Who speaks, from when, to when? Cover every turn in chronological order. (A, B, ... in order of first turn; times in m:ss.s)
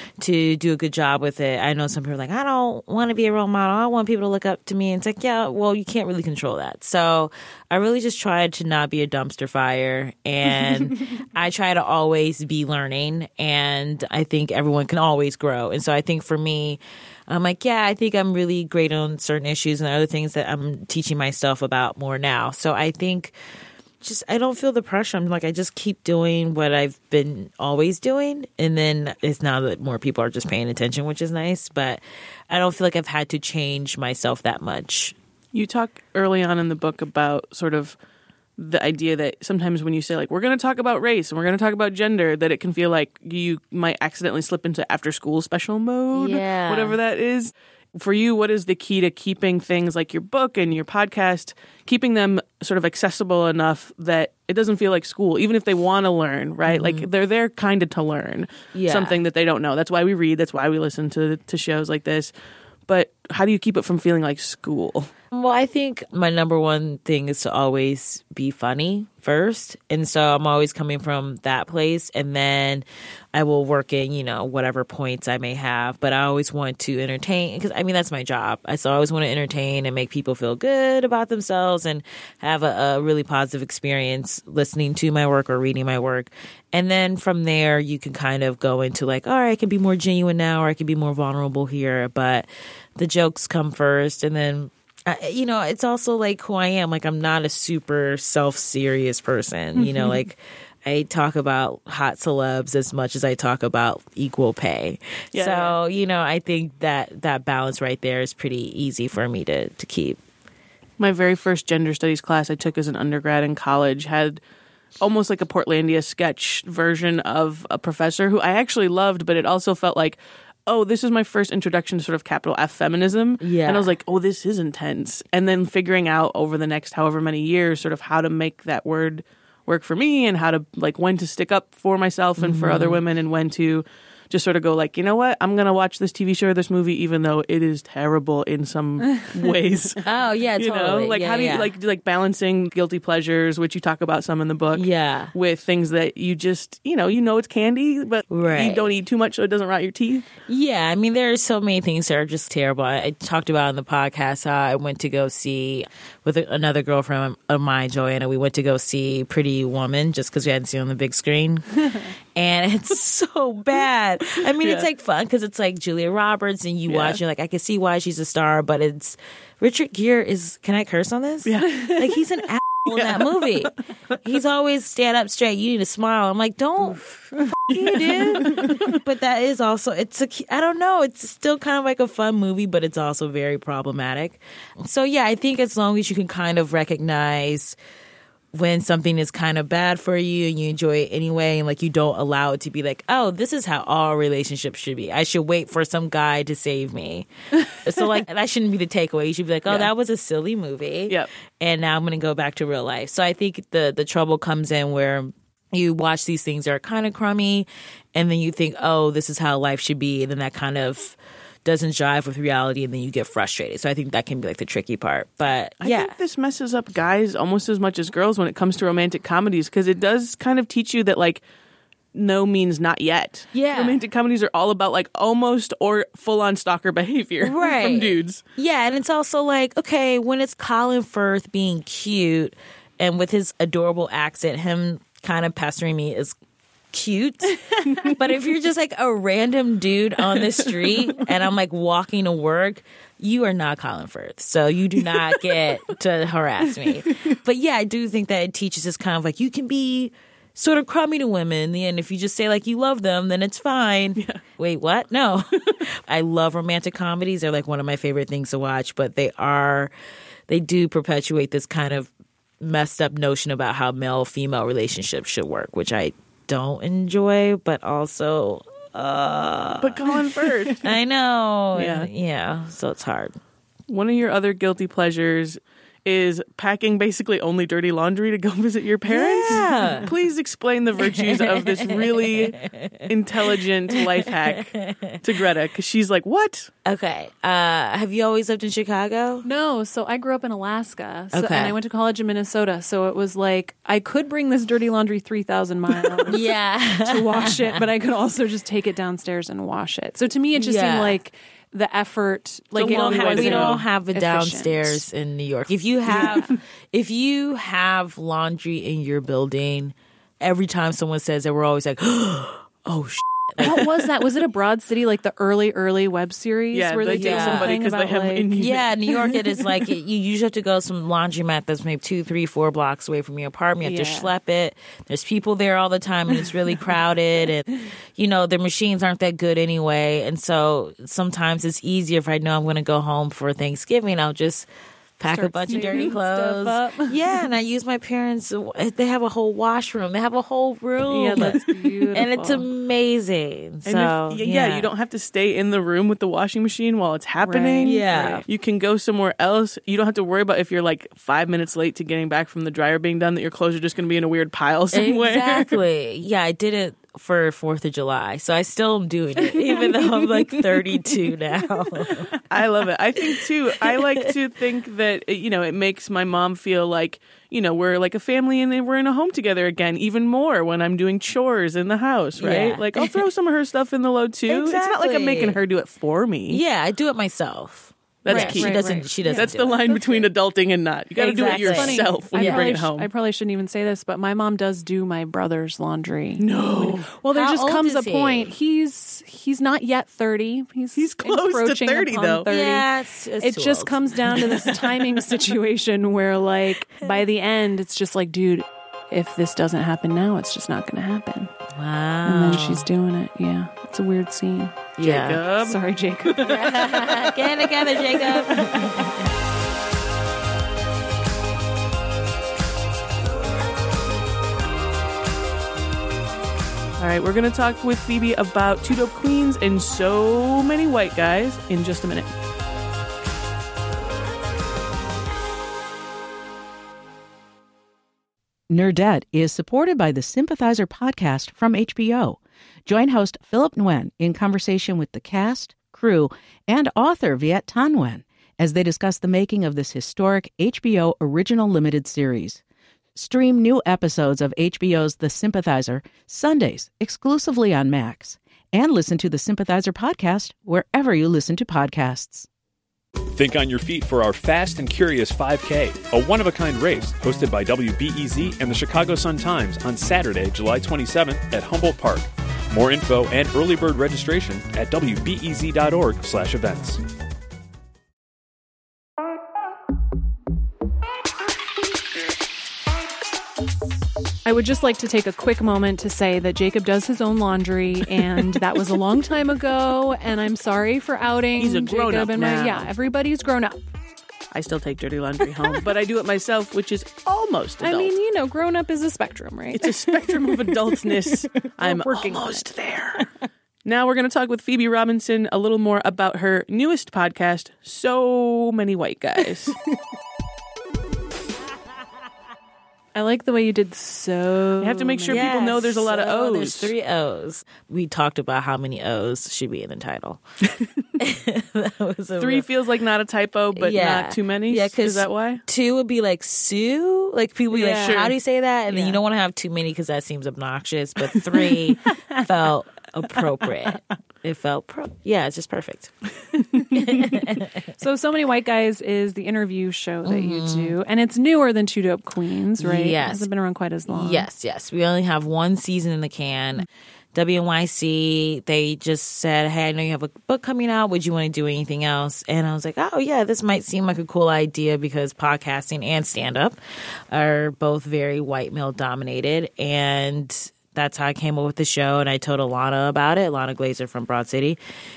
0:00.2-0:23.4 A
0:24.0-0:35.2 A
0:35.5-0:38.0 B
0:38.6-1:02.3 B
0:46.1-0:47.0 A
0:56.7-0:57.1 A
0:58.7-0:59.2 A
1:02.9-1:05.1 B
1:05.3-1:50.2 A
1:45.3-1:45.8 B
1:51.0-1:54.4 B
1:55.0-2:20.0 B
2:03.4-2:03.9 A
2:12.4-2:13.0 A
2:20.0-2:21.7 A
2:20.6-2:30.2 B
2:24.7-2:25.3 A
2:28.3-2:28.9 A
2:30.5-2:41.6 A
2:42.4-2:53.7 A
2:44.6-2:44.9 B
2:46.9-2:47.2 B
2:51.5-2:51.9 B
2:52.8-2:53.7 B
2:54.2-2:57.0 A
2:57.7-3:07.8 A
2:57.8-2:58.8 B
3:08.5-3:36.1 A
3:35.8-3:41.4 B
3:42.1-3:48.4 B
3:43.5-3:44.0 A
3:47.4-3:56.4 A
3:56.9-4:19.9 A
4:20.5-4:33.4 A
4:29.8-4:30.8 B
4:31.8-4:32.1 B
4:33.9-4:46.7 B
4:39.1-4:40.1 A
4:41.0-4:45.2 A
4:46.8-4:49.5 A
4:49.4-4:56.4 C
4:51.3-4:51.8 A
4:56.3-4:57.9 A
4:57.0-5:05.0 C
5:00.6-5:01.2 A
5:02.8-5:03.9 B
5:02.8-5:14.1 A
5:06.1-5:06.6 B
5:06.1-5:06.4 C
5:13.6-5:18.6 C
5:16.7-5:18.9 B
5:17.1-5:17.8 A
5:18.6-5:44.9 A
5:23.8-5:24.3 C
5:35.3-5:37.2 C
5:41.1-5:42.6 C
5:41.4-5:41.7 B
5:43.9-5:55.8 B
5:47.4-5:48.4 C
5:47.8-5:48.4 A
5:54.9-6:02.3 A
6:02.5-6:16.6 B
6:03.3-6:04.3 A
6:12.4-6:13.2 A
6:14.5-6:15.6 A
6:16.5-6:19.9 A
6:18.2-6:23.1 B
6:18.3-6:20.2 C
6:21.2-6:22.7 A
6:21.2-6:32.9 C
6:26.4-6:27.1 B
6:27.3-6:28.5 A
6:31.0-6:32.5 B
6:32.5-6:34.8 A
6:33.4-6:41.5 C
6:41.8-6:42.9 A
6:42.2-6:44.9 C
6:45.0-6:45.4 A
6:45.0-6:45.8 B
6:45.6-6:47.0 C
6:46.4-6:49.2 A
6:46.4-6:46.7 B
6:57.0-7:02.3 B
7:08.7-7:22.6 D
7:23.2-7:32.5 D
7:33.3-7:47.0 E
7:54.4-8:03.9 C
8:01.6-8:02.9 B
8:04.5-8:08.1 B
8:07.8-8:13.3 C
8:09.7-8:13.3 B
8:13.8-8:19.8 B
8:23.2-8:25.7 C
8:24.8-8:26.9 B
8:25.3-8:30.4 A
8:31.2-8:32.7 A
8:32.4-8:35.6 B
8:33.8-8:46.1 A
8:37.7-8:38.3 C
8:38.0-8:38.4 B
8:38.9-8:39.2 C
8:46.9-8:47.7 A
8:48.0-8:54.5 C
8:50.2-8:51.0 A
8:52.8-8:53.5 A
8:54.1-9:06.8 A
9:07.3-9:14.8 A